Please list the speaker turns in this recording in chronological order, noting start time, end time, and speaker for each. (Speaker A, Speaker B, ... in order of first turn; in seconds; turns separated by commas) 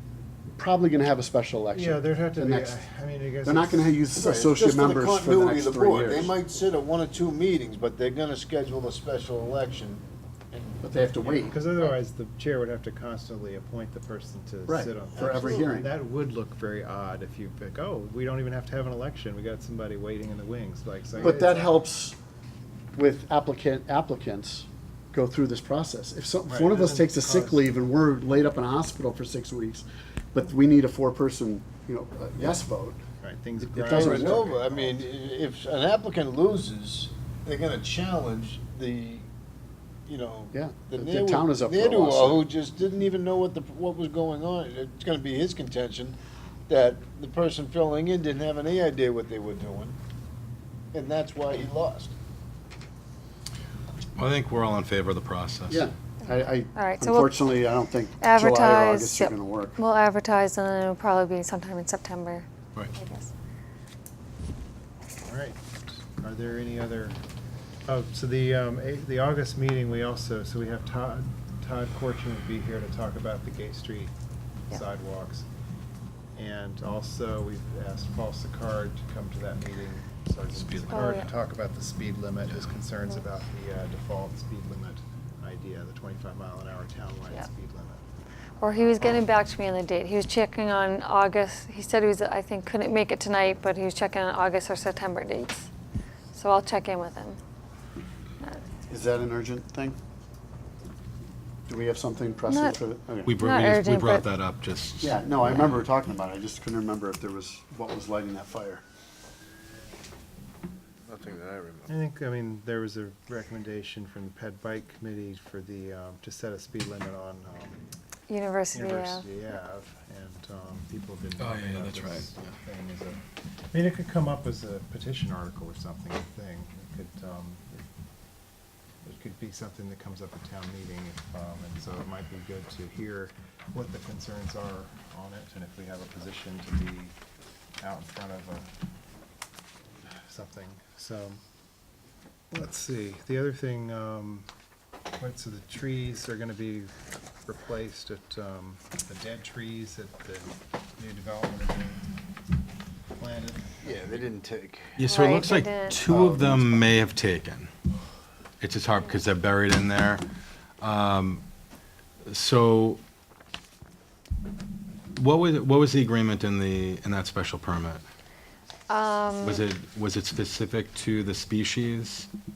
Speaker A: 0.6-2.8, Speaker B: 1.7-4.0, Speaker A: 3.4-6.3, Speaker C: 4.1-11.8, Speaker A: 10.8-11.6, Speaker B: 11.4-21.8, Speaker A: 14.7-15.9, Speaker C: 15.2-15.8, Speaker A: 21.2-22.1, Speaker A: 22.9-33.0, Speaker B: 26.5-27.7, Speaker B: 33.2-35.0, Speaker A: 33.7-34.5, Speaker C: 33.8-39.3, Speaker C: 40.1-46.2, Speaker A: 40.5-42.4, Speaker C: 46.7-50.0, Speaker C: 50.9-52.1, Speaker D: 54.1-55.9, Speaker A: 55.7-59.8, Speaker E: 56.7-57.4, Speaker E: 58.2-63.3, Speaker B: 65.2-67.2, Speaker B: 67.9-74.1, Speaker B: 74.7-75.5, Speaker B: 76.3-88.0, Speaker D: 80.5-81.2, Speaker E: 80.9-81.3, Speaker E: 88.6-95.7, Speaker E: 96.3-97.4, Speaker A: 98.9-100.0, Speaker A: 101.7-103.3, Speaker E: 102.5-102.8, Speaker D: 103.2-105.8, Speaker E: 103.3-104.2, Speaker A: 105.0-108.8, Speaker C: 111.1-111.9, Speaker B: 111.9-117.8, Speaker E: 118.3-119.2, Speaker B: 118.7-123.2, Speaker D: 121.4-122.5, Speaker B: 123.7-127.8, Speaker B: 129.0-137.1, Speaker B: 137.8-138.7, Speaker B: 140.1-141.4, Speaker B: 142.5-144.5, Speaker B: 145.2-146.9, Speaker B: 147.4-152.1, Speaker B: 153.2-154.3, Speaker C: 153.8-155.0, Speaker D: 154.9-157.7, Speaker E: 155.0-156.0, Speaker A: 156.1-157.0, Speaker D: 158.6-160.2, Speaker D: 160.8-161.4, Speaker D: 162.2-163.0, Speaker D: 165.1-168.0, Speaker E: 168.9-169.6, Speaker D: 169.4-172.3